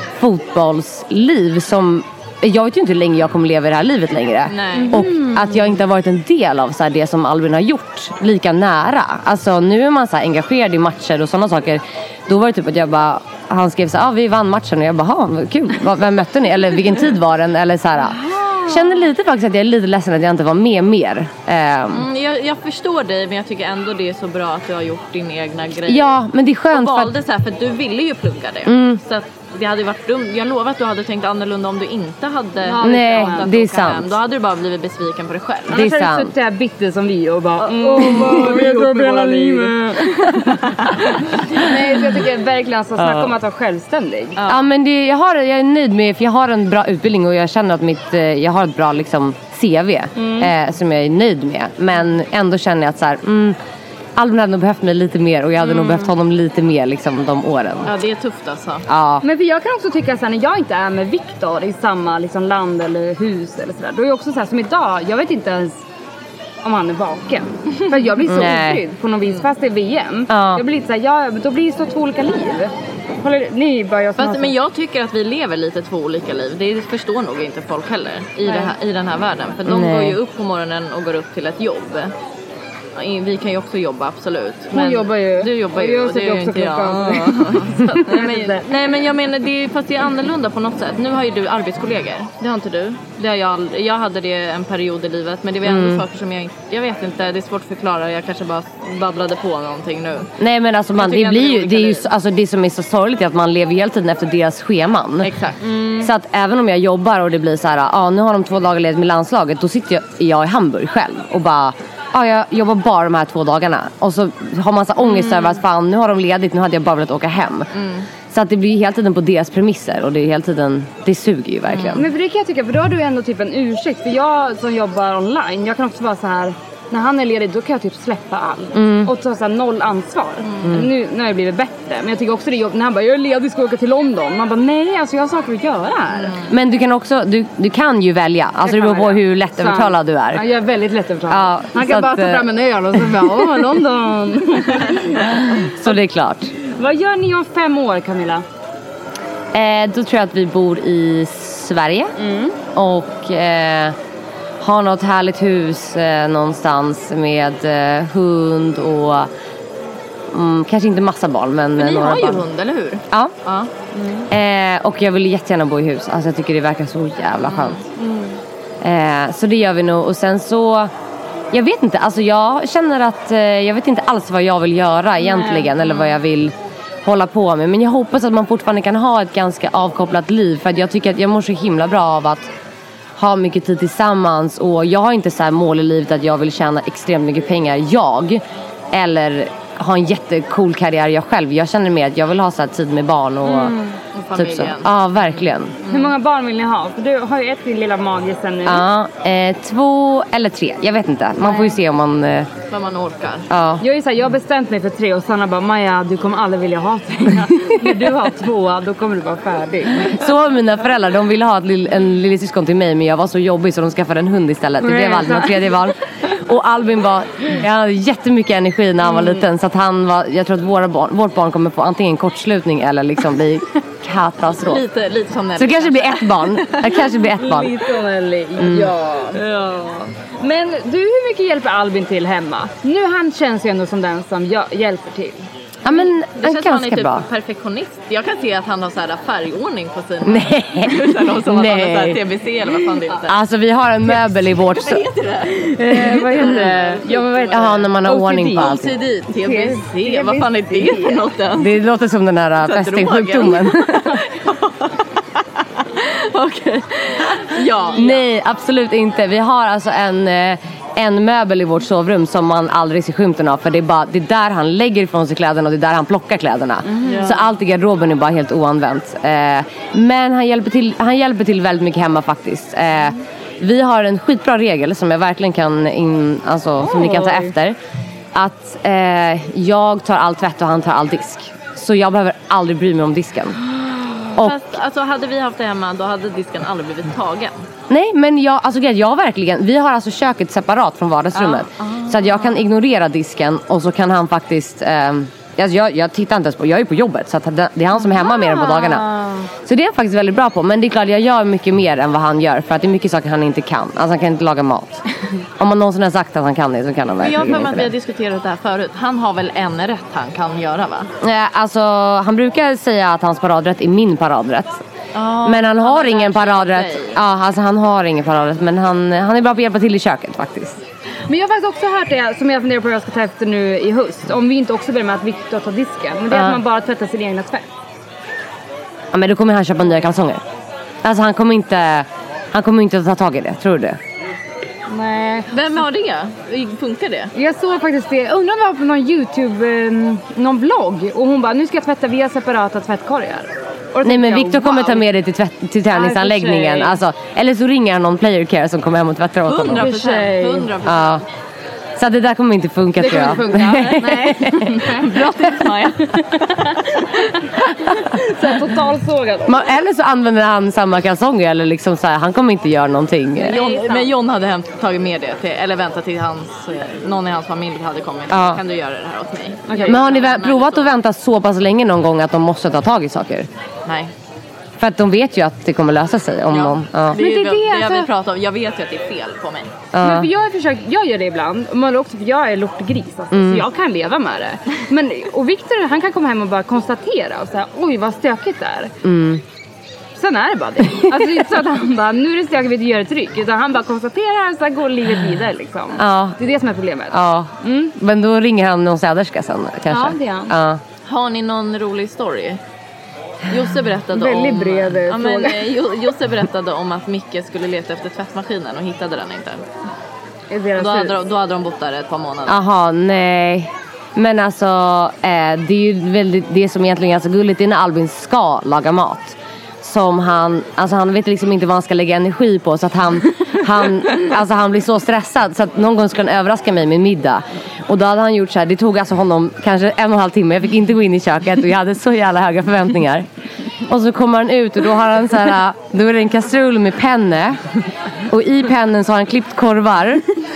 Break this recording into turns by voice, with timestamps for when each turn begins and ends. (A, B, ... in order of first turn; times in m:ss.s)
0:00.2-0:22.0 A
0:04.5-0:05.0 B
0:04.8-0:05.6 C
0:21.9-0:26.1 B
0:25.9-0:27.2 A
0:26.7-0:35.8 B
0:28.6-0:29.0 A
0:32.6-0:33.5 C
0:32.8-0:34.1 A
0:35.7-0:40.6 C
0:35.7-0:36.3 A
0:37.6-0:39.8 B
0:41.5-0:44.4 C
0:43.0-0:43.3 A
0:44.4-0:44.7 B
0:44.4-0:53.6 A
0:50.2-0:50.5 C
0:54.2-0:58.0 A
0:55.7-0:56.0 C
0:57.8-0:58.8 B
0:58.9-0:59.2 A
0:59.2-1:05.8 C
1:06.6-1:14.5 C
1:08.2-1:08.8 A
1:10.3-1:10.6 A
1:14.2-1:22.1 B
1:18.4-1:18.7 C
1:19.6-1:20.2 A
1:22.9-1:40.3 B
1:24.7-1:28.7 C
1:35.6-1:36.0 A
1:40.4-1:45.3 A
1:40.9-1:42.1 B
1:45.2-1:45.6 B
1:45.6-1:46.1 C
1:46.0-1:57.7 A
1:57.7-1:58.0 B
1:58.3-2:02.0 A
2:01.7-2:02.0 B
2:01.9-2:16.4 C
2:08.7-2:09.1 A
2:10.4-2:10.7 B
2:16.5-2:20.4 A
2:18.6-2:25.2 C
2:21.3-2:22.5 A
2:25.8-2:26.5 A
2:26.8-2:28.4 C
2:29.5-2:32.1 A
2:32.2-2:32.5 C
2:32.7-2:33.9 A
2:34.6-2:39.3 A
2:40.3-2:42.4 A
2:41.8-2:43.7 B
2:43.9-2:44.3 C
2:44.3-2:47.8 A
2:47.4-2:47.8 B
2:48.0-2:48.4 C
2:48.8-2:50.9 A
2:51.5-3:02.5 A
2:55.2-2:55.6 C
3:03.2-3:13.7 A
3:13.4-3:16.1 B
3:14.3-3:15.7 A
3:15.9-3:18.8 C
3:18.6-3:22.5 A
3:22.7-3:23.4 B
3:23.5-3:23.8 A
3:23.8-3:30.1 C
3:30.1-3:44.8 A
3:34.8-3:35.5 C
3:39.1-3:39.4 C
3:44.6-3:46.9 B
3:45.5-3:47.7 A
3:47.3-3:55.4 C
3:48.6-3:48.9 A
3:48.6-3:49.4 B
3:55.8-3:57.3 A
3:55.9-4:03.3 B
4:00.2-4:02.2 A
4:03.2-4:05.0 A
4:04.7-4:07.9 B
4:05.7-4:08.8 C
4:07.5-4:09.0 A
4:08.6-4:11.7 B
4:09.3-4:11.3 C
4:11.6-4:14.1 A
4:12.6-4:14.9 B
4:16.0-4:18.2 B
4:18.0-4:37.8 A
4:26.9-4:27.4 B
4:36.8-4:37.5 C
4:38.3-4:43.6 A
4:44.4-4:44.8 A
4:44.4-4:47.6 B
4:47.9-4:59.1 A
4:51.4-4:52.6 B
4:58.5-4:59.1 C
4:59.6-5:05.0 A
5:05.6-5:07.9 A
5:07.2-5:11.1 B
5:11.2-5:14.8 A
5:15.1-5:17.2 B
5:15.4-5:20.8 A
5:21.3-5:27.6 C
5:26.3-5:26.6 A
5:29.1-5:30.4 A
5:31.0-5:34.0 A
5:34.9-5:35.5 C
5:35.5-5:37.3 B
5:37.3-5:45.0 C
5:44.0-5:49.9 A
5:45.9-5:47.0 C
5:49.5-5:51.2 B
5:49.8-5:50.7 C
5:50.8-5:51.2 A
5:52.0-5:54.7 A
5:53.0-5:55.0 C
5:54.0-5:56.5 B
5:58.0-5:59.6 C
5:59.5-6:03.6 A
6:03.5-6:04.1 C
6:03.5-6:10.9 B
6:08.3-6:08.6 A
6:09.7-6:10.2 C
6:09.9-6:13.5 A
6:13.8-6:14.1 B
6:14.8-6:17.2 A
6:16.5-6:19.7 B
6:17.1-6:18.1 C
6:19.9-6:20.3 A
6:20.0-6:28.9 C
6:23.3-6:23.6 A
6:29.0-6:29.4 A
6:30.2-6:37.9 C
6:36.0-6:36.4 A
6:37.1-6:40.8 A
6:39.9-6:40.5 C
6:41.0-6:42.6 B
6:43.5-6:49.6 B
6:44.1-6:45.7 C
6:50.5-6:51.2 C
6:50.8-6:52.6 B
6:52.5-7:13.2 A
7:13.9-7:17.6 A
7:18.3-7:20.2 A